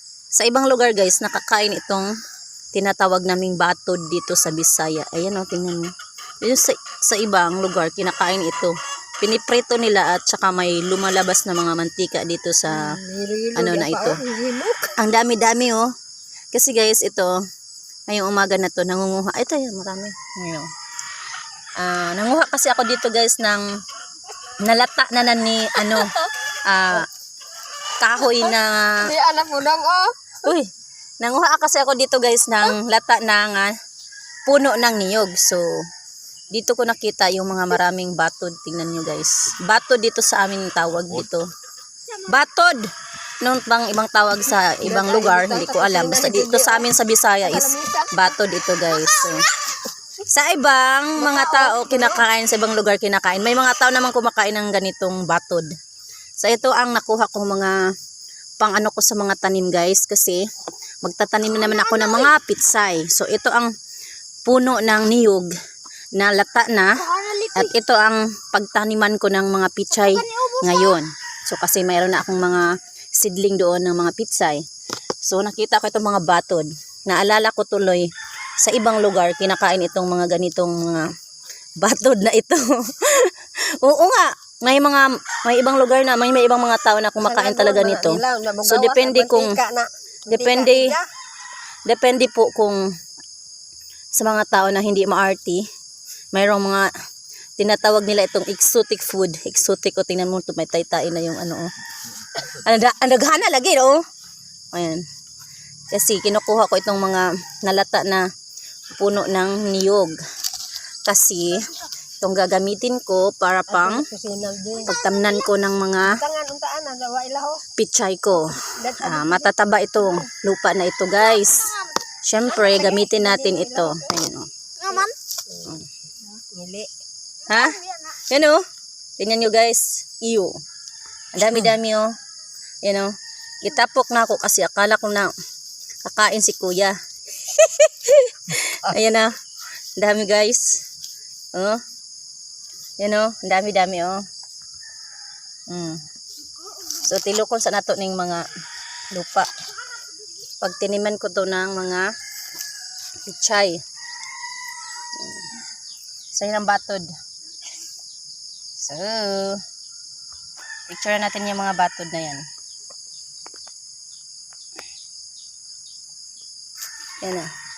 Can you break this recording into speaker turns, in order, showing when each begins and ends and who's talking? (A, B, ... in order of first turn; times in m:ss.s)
0:00.4-0:02.1 A
0:02.8-0:12.9 A
0:12.7-0:15.0 B
0:13.6-0:14.2 A
0:15.0-0:15.9 A
0:16.5-0:17.3 A
0:18.1-0:20.7 A
0:21.8-0:23.7 A
0:24.5-0:27.1 A
0:28.0-0:29.1 A
0:29.0-0:30.4 B
0:30.4-0:30.7 A
0:31.2-0:33.7 A
0:34.5-0:35.8 A
0:36.5-0:41.5 A
0:42.2-0:42.9 A
0:43.4-0:49.5 A
0:44.8-0:46.9 B
0:47.4-0:48.4 B
0:50.2-0:55.7 A
0:51.2-0:52.3 B
0:56.4-0:57.8 A
0:58.6-1:00.4 A
1:01.0-1:03.7 A
1:04.5-1:05.5 A
1:06.2-1:14.6 A
1:15.2-1:21.1 A
1:21.8-1:29.6 A
1:27.2-1:31.1 B
1:30.3-1:31.0 A
1:31.9-1:32.8 A
1:34.2-1:35.6 A
1:36.4-1:36.9 A
1:37.6-1:41.7 A
1:42.4-1:44.0 A
1:44.7-1:45.0 A
1:45.9-1:48.2 A
1:49.0-1:50.2 A
1:51.1-1:54.0 A
1:53.7-1:54.9 B
1:54.8-1:56.2 A
1:56.0-1:57.6 B
1:57.8-2:04.5 A
1:58.7-2:00.3 B
2:02.5-2:04.1 B
2:04.8-2:06.9 B
2:07.5-2:08.6 A
2:09.2-2:10.5 A
2:11.3-2:12.1 A
2:12.8-2:13.1 A
2:13.6-2:15.3 A
2:16.0-2:19.3 A
2:20.0-2:20.8 A
2:21.6-2:21.8 A
2:23.0-2:24.2 A
2:25.7-2:26.0 A
2:27.0-2:28.5 A
2:29.1-2:29.5 A
2:30.6-2:32.1 A
2:33.2-2:33.8 A
2:35.2-2:35.4 A
2:36.3-2:37.1 A
2:38.8-2:39.6 A
2:40.9-2:42.5 A
2:47.2-2:47.5 A